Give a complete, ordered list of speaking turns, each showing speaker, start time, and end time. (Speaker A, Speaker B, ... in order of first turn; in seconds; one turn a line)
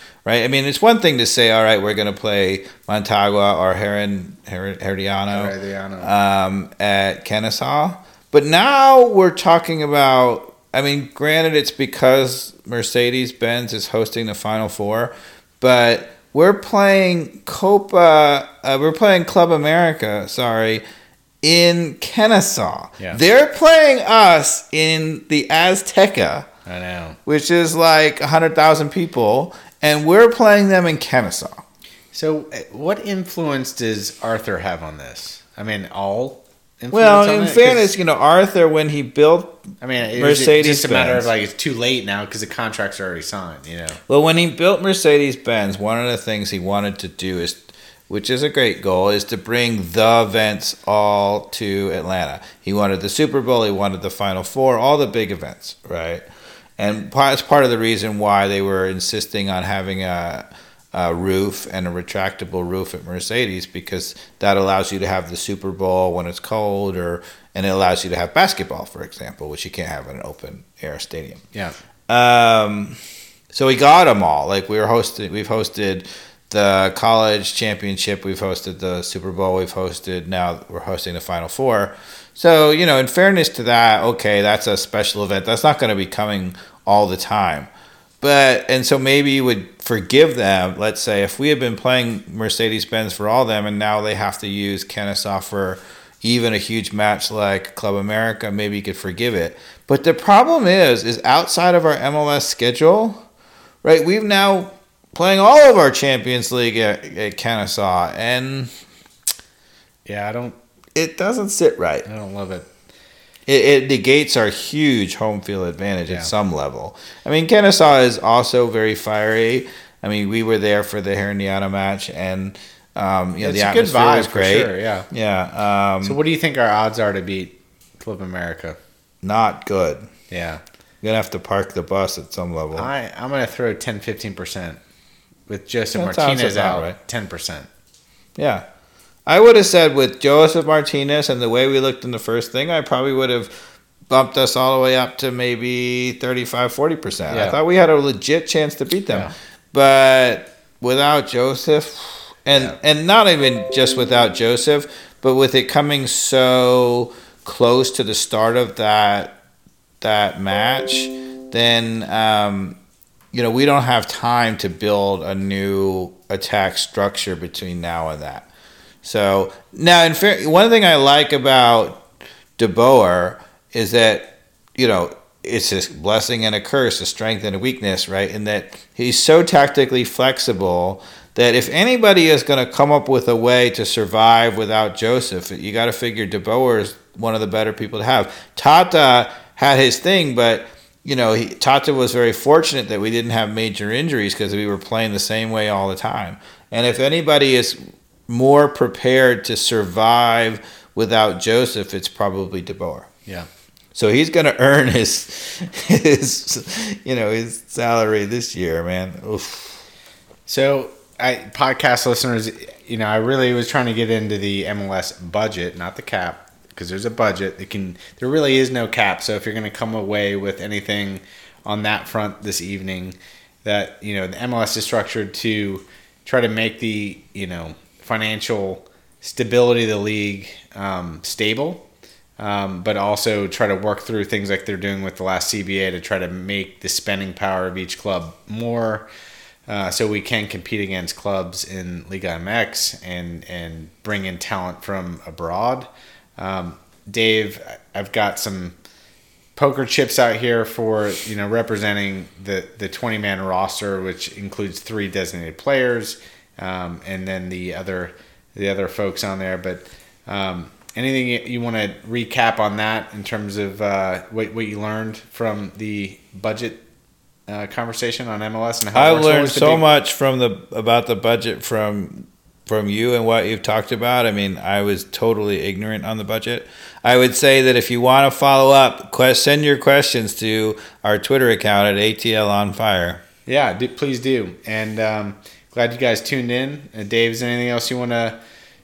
Speaker A: 0.3-20.8
Speaker B: 5.3-6.1
Speaker A: 21.4-26.5
Speaker B: 26.7-27.2
Speaker A: 27.3-31.6
Speaker B: 32.1-37.9
Speaker A: 36.9-41.3
Speaker B: 39.8-44.0
Speaker A: 44.1-56.2
Speaker A: 56.8-71.4
Speaker A: 72.1-73.0
Speaker A: 73.5-87.7
Speaker A: 88.2-103.2
Speaker A: 103.8-108.8
Speaker B: 110.1-110.6
Speaker A: 111.0-112.1
Speaker B: 112.1-112.7
Speaker A: 113.5-126.2
Speaker B: 123.4-125.1
Speaker B: 126.0-128.8
Speaker A: 129.2-130.1
Speaker B: 130.3-130.6
Speaker A: 131.0-132.9
Speaker B: 132.8-134.8
Speaker B: 135.5-137.7
Speaker A: 135.9-137.0
Speaker A: 138.4-138.7
Speaker A: 139.3-143.5
Speaker A: 144.1-159.4
Speaker B: 147.3-147.6
Speaker A: 160.0-162.8
Speaker A: 163.3-168.5
Speaker A: 169.0-172.1
Speaker A: 172.6-203.1
Speaker A: 203.9-209.9
Speaker B: 210.5-231.8
Speaker B: 232.4-239.1
Speaker B: 239.7-248.8
Speaker B: 249.6-266.8
Speaker B: 267.5-269.9
Speaker A: 268.9-283.2
Speaker B: 283.5-288.4